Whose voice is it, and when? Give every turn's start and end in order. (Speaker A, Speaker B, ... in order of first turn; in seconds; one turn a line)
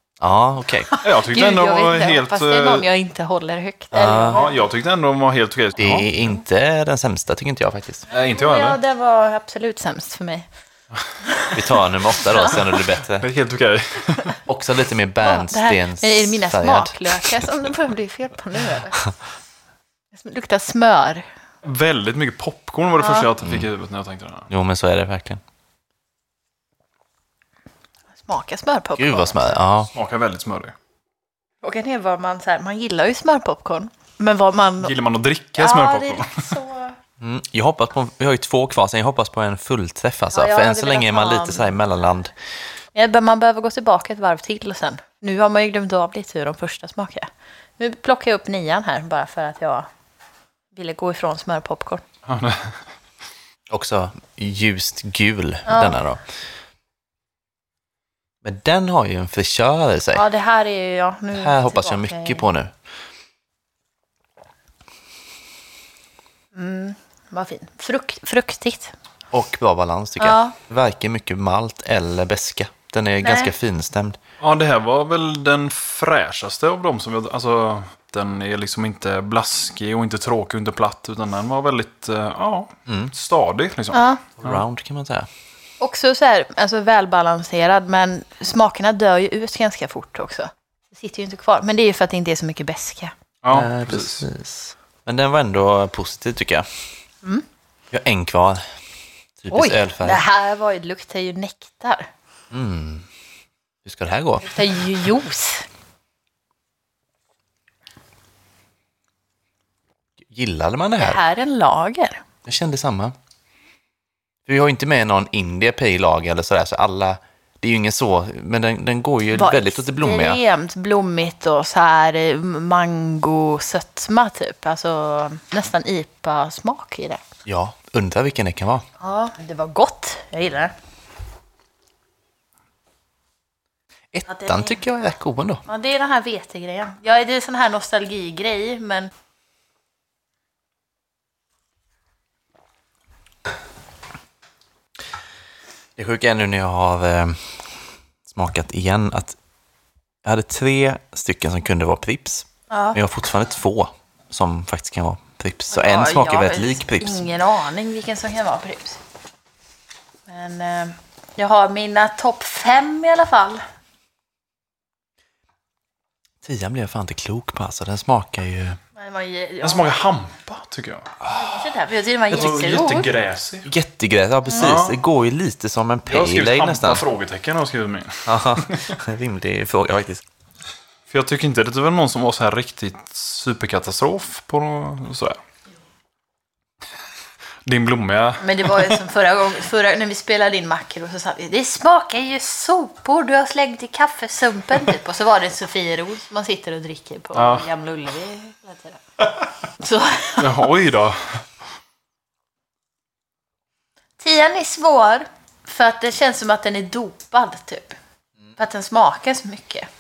Speaker A: 0.2-0.9
Speaker B: 0.9-4.6
Speaker C: 1.0-2.9
Speaker A: 3.9-4.4
Speaker C: 4.3-6.1
Speaker A: 5.8-8.1
Speaker C: 8.1-8.8
Speaker B: 8.3-10.5
Speaker B: 11.2-11.6
Speaker A: 11.5-13.3
Speaker B: 12.1-12.6
Speaker C: 13.2-14.4
Speaker A: 14.5-17.4
Speaker B: 15.2-19.1
Speaker B: 20.1-21.2
Speaker C: 21.6-24.5
Speaker B: 23.0-23.3
Speaker A: 23.4-23.7
Speaker A: 24.5-25.4
Speaker B: 28.2-29.6
Speaker A: 29.0-29.9
Speaker C: 29.9-30.7
Speaker B: 31.6-34.9
Speaker C: 34.8-36.4
Speaker B: 35.6-37.0
Speaker A: 37.2-42.3
Speaker B: 40.3-41.7
Speaker B: 43.0-49.9
Speaker B: 50.7-52.0
Speaker C: 52.3-52.8
Speaker A: 53.7-56.2
Speaker B: 55.7-56.0
Speaker A: 58.4-60.2
Speaker B: 60.1-62.5
Speaker A: 61.3-62.7
Speaker B: 66.5-68.9
Speaker A: 69.3-74.2
Speaker B: 70.2-70.6
Speaker B: 73.2-73.5
Speaker C: 74.4-84.6
Speaker B: 83.9-84.2
Speaker A: 84.4-85.3
Speaker B: 85.8-93.1
Speaker C: 93.4-94.3
Speaker A: 93.5-96.7
Speaker A: 97.9-98.7
Speaker A: 99.4-100.2
Speaker B: 99.5-102.1
Speaker A: 102.5-103.1
Speaker A: 103.8-104.6
Speaker B: 104.4-105.7
Speaker A: 110.2-111.2
Speaker B: 111.0-112.2
Speaker A: 112.5-113.1
Speaker A: 114.5-120.4
Speaker B: 119.3-127.2
Speaker A: 127.5-128.8
Speaker B: 129.0-130.7
Speaker A: 134.1-135.6
Speaker B: 134.3-134.8
Speaker B: 135.7-139.1
Speaker A: 146.0-147.7
Speaker A: 148.3-149.4
Speaker A: 150.2-157.3
Speaker B: 152.7-153.0
Speaker B: 155.7-159.0
Speaker B: 160.3-163.6
Speaker A: 166.4-168.8
Speaker B: 169.0-169.9
Speaker C: 169.6-171.2
Speaker B: 171.3-173.1
Speaker C: 172.3-173.7
Speaker A: 173.7-177.0
Speaker C: 174.6-175.0
Speaker C: 176.1-179.0
Speaker A: 178.3-180.2
Speaker C: 181.1-185.4
Speaker C: 187.7-189.0
Speaker B: 188.4-199.0
Speaker C: 197.3-197.7
Speaker B: 199.8-200.6
Speaker C: 200.4-201.4
Speaker B: 204.2-208.0
Speaker B: 208.6-209.9